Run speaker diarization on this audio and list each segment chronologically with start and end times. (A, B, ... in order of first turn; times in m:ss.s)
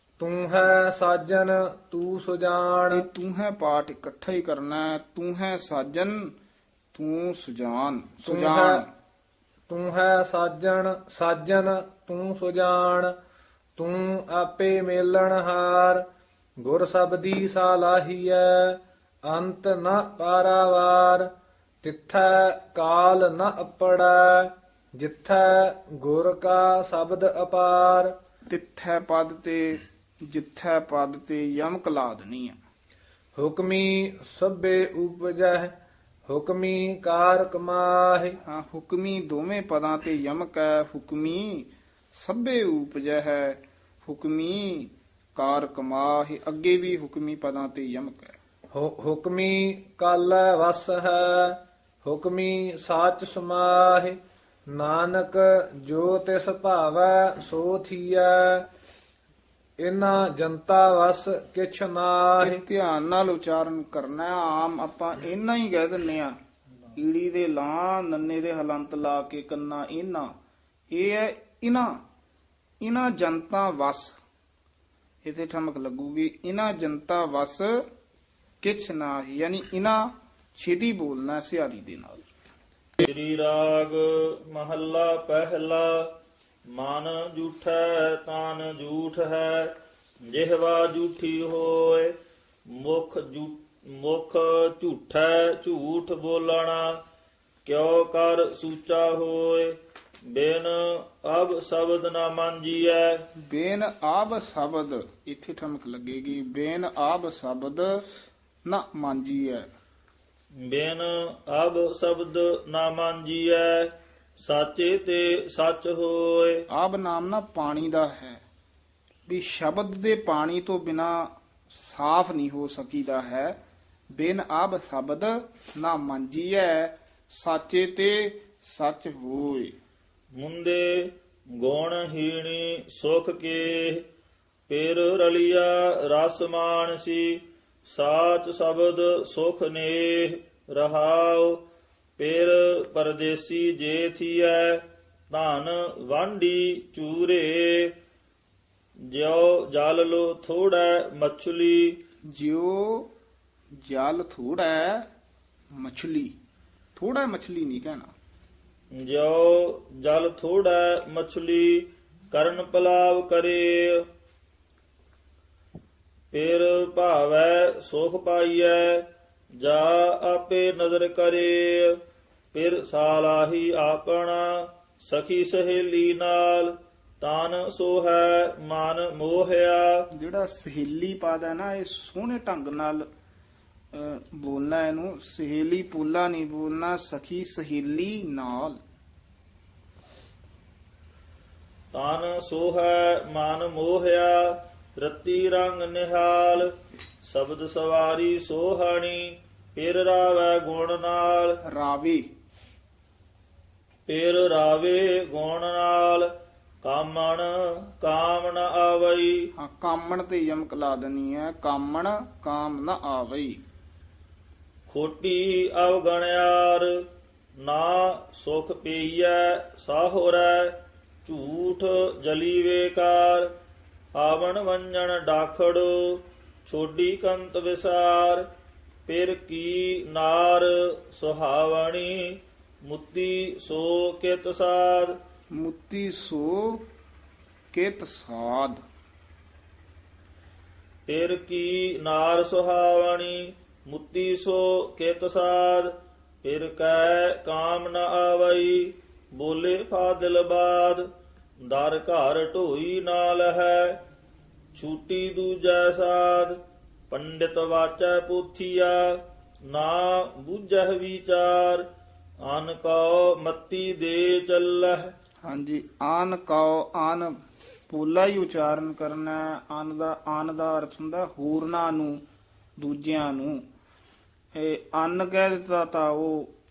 0:00.2-0:03.0 A
0:02.9-0:06.3 B
0:06.9-0:08.9 B
0:08.2-0:08.8 A
0:09.7-0:13.1 A
0:13.8-0:16.0 A
0:16.6-0:21.3 A
0:21.8-0:28.1 A
0:28.5-0:32.6 B
0:33.4-0:35.7 A
0:36.3-0:38.4 A
0:38.4-0:48.4 B
0:48.7-0:54.2 A
0:54.7-0:58.7 A
0:59.8-1:02.6 A
1:02.4-1:06.3 B
1:06.9-1:10.3 B
1:10.9-1:12.0 B
1:12.8-1:14.2 B
1:15.2-1:17.8 B
1:18.6-1:22.2 B
1:23.0-1:26.1 C
1:26.7-1:29.7 C
1:30.2-1:32.1 C
1:32.7-1:37.0 C
1:37.6-1:39.8 C
1:40.3-1:43.2 C
1:43.4-1:48.0 B
1:48.6-1:49.6 B
1:50.6-1:56.6 C
1:56.7-1:58.4 B
1:59.3-2:03.5 B
2:04.1-2:09.7 B
2:10.3-2:14.0 C
2:14.7-2:21.6 C
2:22.2-2:27.9 C
2:29.1-2:32.0 C
2:32.3-2:33.1 B
2:33.8-2:35.1 B
2:35.7-2:36.3 B
2:36.9-2:38.1 B
2:38.9-2:44.0 C
2:46.3-2:49.1 C
2:49.6-2:52.0 C
2:52.5-3:00.0 C
3:00.1-3:03.0 B
3:03.9-3:08.8 B
3:11.9-3:16.7 C
3:17.2-3:21.6 C
3:21.7-3:22.2 B
3:24.1-3:26.3 C
3:26.8-3:29.4 C
3:29.6-3:33.6 B
3:34.9-3:36.9 C
3:37.6-3:43.5 C
3:44.1-3:48.4 C
3:49.0-3:55.2 C
3:55.5-3:56.8 B
3:57.7-3:58.8 B
4:01.0-4:05.9 C
4:06.4-4:11.0 C
4:11.6-4:14.0 C
4:14.7-4:16.6 C
4:17.1-4:21.8 C
4:22.4-4:25.1 C
4:25.4-4:27.4 B
4:27.9-4:32.2 B
4:32.8-4:33.6 B
4:34.5-4:36.5 B